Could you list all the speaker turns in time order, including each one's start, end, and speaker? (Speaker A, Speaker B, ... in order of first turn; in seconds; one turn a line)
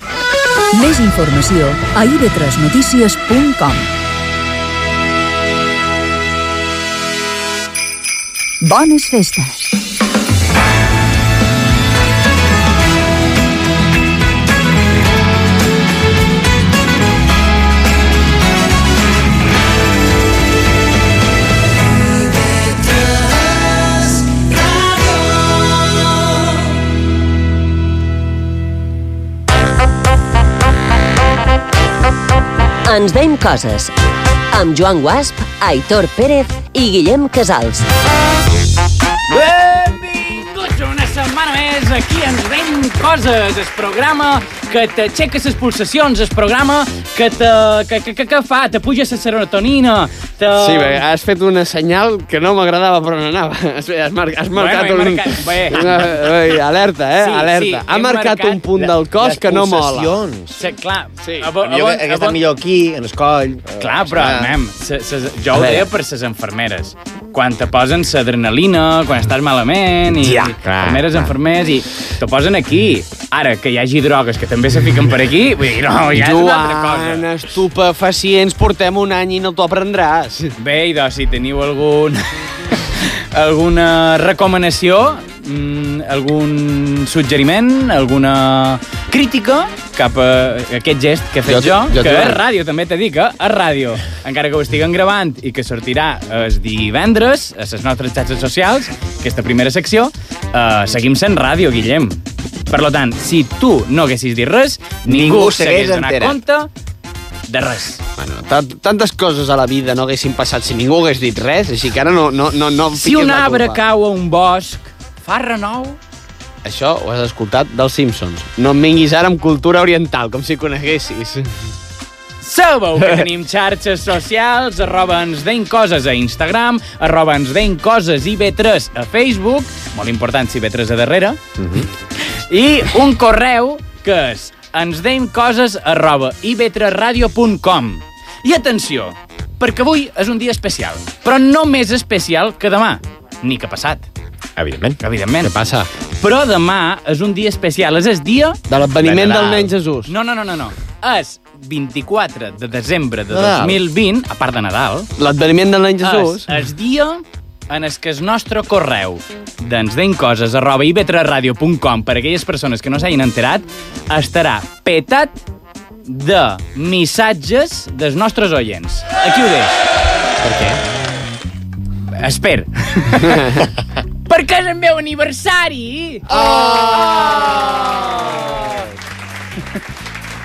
Speaker A: 0.7-3.9
Speaker A: 8.6-9.8
Speaker B: 32.8-33.9
Speaker B: 34.5-37.9
Speaker C: 39.3-51.0
Speaker D: 50.5-60.2
Speaker C: 54.5-56.0
Speaker C: 57.2-58.9
Speaker E: 59.2-60.6
Speaker C: 60.6-62.4
Speaker D: 61.2-61.5
Speaker E: 61.6-64.5
Speaker C: 63.8-77.2
Speaker D: 65.5-65.9
Speaker D: 70.2-70.5
Speaker E: 70.5-71.3
Speaker D: 76.1-80.5
Speaker C: 80.6-102.2
Speaker D: 91.5-92.4
Speaker C: 102.7-106.7
Speaker E: 105.0-106.4
Speaker C: 107.5-108.0
Speaker D: 108.2-113.8
Speaker C: 113.0-116.0
Speaker D: 116.6-121.5
Speaker C: 122.4-131.4
Speaker E: 131.6-131.9
Speaker C: 132.2-144.1
Speaker E: 144.6-145.0
Speaker C: 145.0-145.5
Speaker D: 145.4-145.9
Speaker C: 146.2-148.6
Speaker D: 148.7-150.1
Speaker E: 149.0-149.7
Speaker C: 150.1-155.1
Speaker E: 153.3-153.8
Speaker D: 155.2-156.5
Speaker C: 156.0-165.4
Speaker C: 166.1-169.8
Speaker D: 170.4-170.8
Speaker C: 172.2-173.7
Speaker C: 174.2-178.7
Speaker E: 176.3-178.3